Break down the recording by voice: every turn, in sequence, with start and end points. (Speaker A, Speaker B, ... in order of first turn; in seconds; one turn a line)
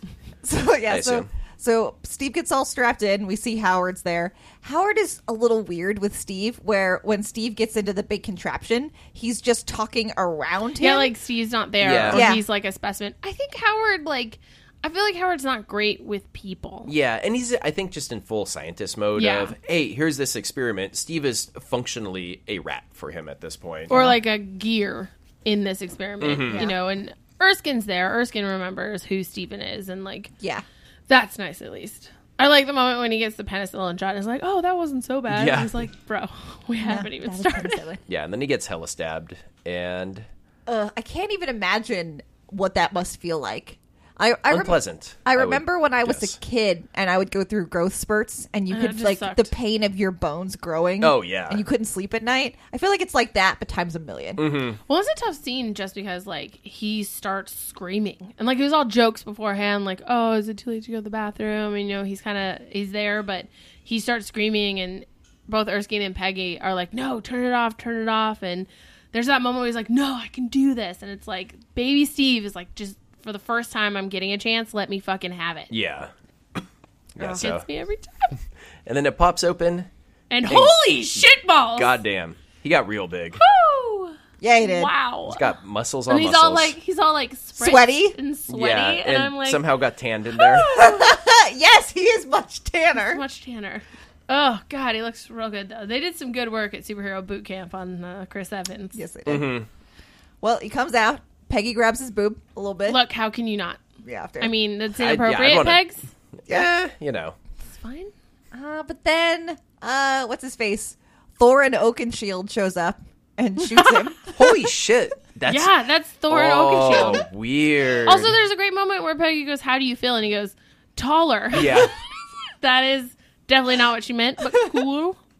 Speaker A: 0.4-11.1
Speaker B: 0.9-1.3
Speaker C: 10.8-16.9
Speaker B: 11.8-12.3
Speaker A: 12.1-12.4
Speaker B: 16.9-24.0
Speaker C: 19.2-19.5
Speaker C: 23.9-30.3
Speaker A: 23.9-24.1
Speaker B: 26.2-26.6
Speaker A: 30.4-30.6
Speaker C: 31.1-37.8
Speaker B: 35.3-35.7
Speaker A: 36.8-38.0
Speaker B: 38.1-40.2
Speaker A: 40.7-54.4
Speaker B: 44.5-46.4
Speaker C: 48.7-49.5
Speaker B: 51.0-51.6
Speaker B: 54.4-54.8
Speaker C: 54.9-75.7
Speaker B: 75.7-76.6
Speaker B: 77.2-77.6
Speaker A: 77.2-77.5
Speaker C: 77.3-78.3
Speaker B: 78.8-79.9
Speaker C: 80.3-81.9
Speaker B: 80.5-83.4
Speaker C: 83.4-85.5
Speaker A: 84.4-84.9
Speaker B: 85.2-86.7
Speaker C: 86.1-89.6
Speaker A: 87.6-88.2
Speaker B: 88.5-90.7
Speaker C: 90.3-91.2
Speaker A: 90.7-93.2
Speaker C: 92.9-99.0
Speaker A: 98.9-99.5
Speaker B: 99.2-99.7
Speaker A: 100.4-103.0
Speaker C: 102.9-103.8
Speaker A: 104.0-104.5
Speaker C: 104.4-106.1
Speaker B: 104.9-105.8
Speaker B: 106.4-107.3
Speaker C: 107.7-108.1
Speaker A: 108.5-114.3
Speaker C: 113.7-114.2
Speaker B: 114.3-115.7
Speaker C: 115.5-117.2
Speaker B: 116.3-118.4
Speaker C: 118.0-121.9
Speaker B: 121.5-121.9
Speaker C: 122.6-125.2